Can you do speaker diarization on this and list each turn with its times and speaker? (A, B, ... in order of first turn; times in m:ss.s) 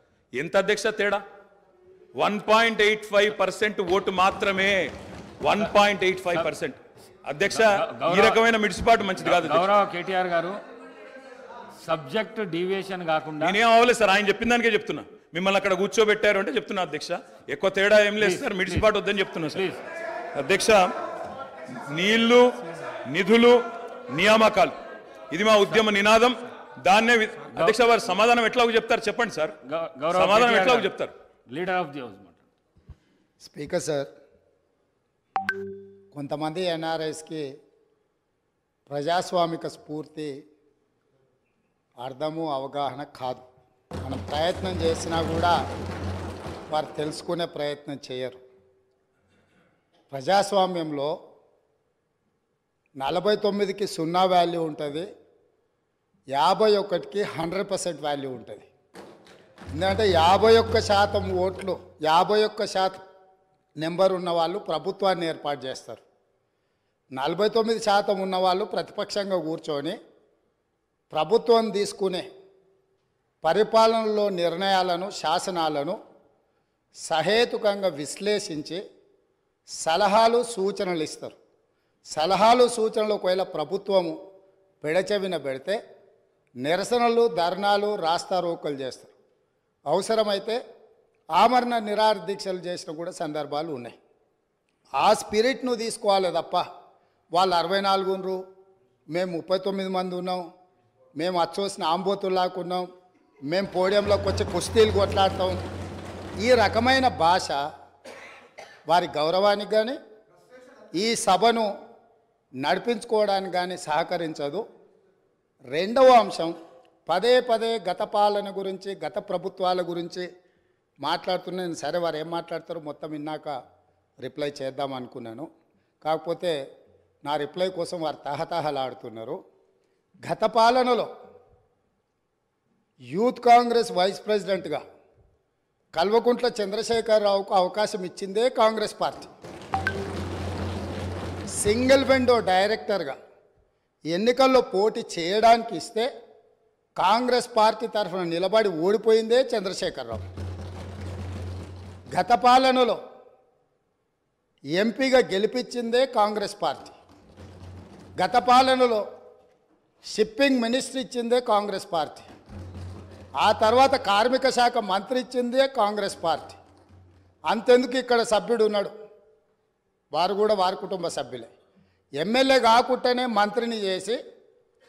0:00.4-0:01.2 A
0:02.2-0:04.9 A
0:05.4-0:09.7 A
0:07.5-0:08.4 B
0:09.2-0:10.6 B
0:11.8-0:13.6 B
0:13.4-0:19.6 A
0:18.2-0:18.9 B
0:19.5-0:19.8 B
0:20.4-0:20.9 A
0:21.8-0:22.5 A
0:23.1-0:23.6 A
0:24.1-0:24.8 A
0:25.3-0:29.6 A
0:29.6-0:30.9 B
0:30.1-0:31.1 A
0:31.5-0:32.4 B
0:33.4-0:34.1 C
0:36.1-0:37.4 C
0:38.9-0:40.3 C
0:42.0-0:43.4 C
0:44.0-0:45.6 C
0:46.7-0:48.4 C
0:50.1-0:51.1 C
0:53.0-0:55.1 C
0:56.4-0:58.7 C
0:59.8-1:03.0 C
1:03.8-1:06.0 C
1:07.2-1:10.0 C
1:11.1-1:12.3 C
1:13.4-1:16.0 C
1:17.1-1:18.8 C
1:19.8-1:21.4 C
1:22.1-1:24.2 C
1:24.8-1:25.8 C
1:26.6-1:29.1 C
1:29.9-1:30.6 C
1:31.4-1:34.0 C
1:35.0-1:36.6 C
1:37.3-1:38.4 C
1:39.1-1:40.4 C
1:41.2-1:42.8 C
1:43.5-1:45.6 C
1:46.4-1:47.6 C
1:48.9-1:50.0 C
1:51.0-1:51.7 C
1:52.6-1:54.6 C
1:55.7-1:56.5 C
1:57.0-2:00.3 C
2:01.0-2:03.5 C
2:04.2-2:05.5 C
2:06.0-2:06.6 C
2:07.2-2:09.4 C
2:10.2-2:11.1 C
2:13.1-2:14.8 C
2:16.0-2:19.3 C
2:21.6-2:23.2 C
2:24.1-2:26.1 C
2:27.0-2:30.2 C
2:32.1-2:33.0 C
2:34.8-2:37.0 C
2:38.2-2:39.0 C
2:40.1-2:42.3 C
2:43.4-2:46.6 C
2:47.5-2:48.9 C
2:50.1-2:51.5 C
2:52.2-2:54.2 C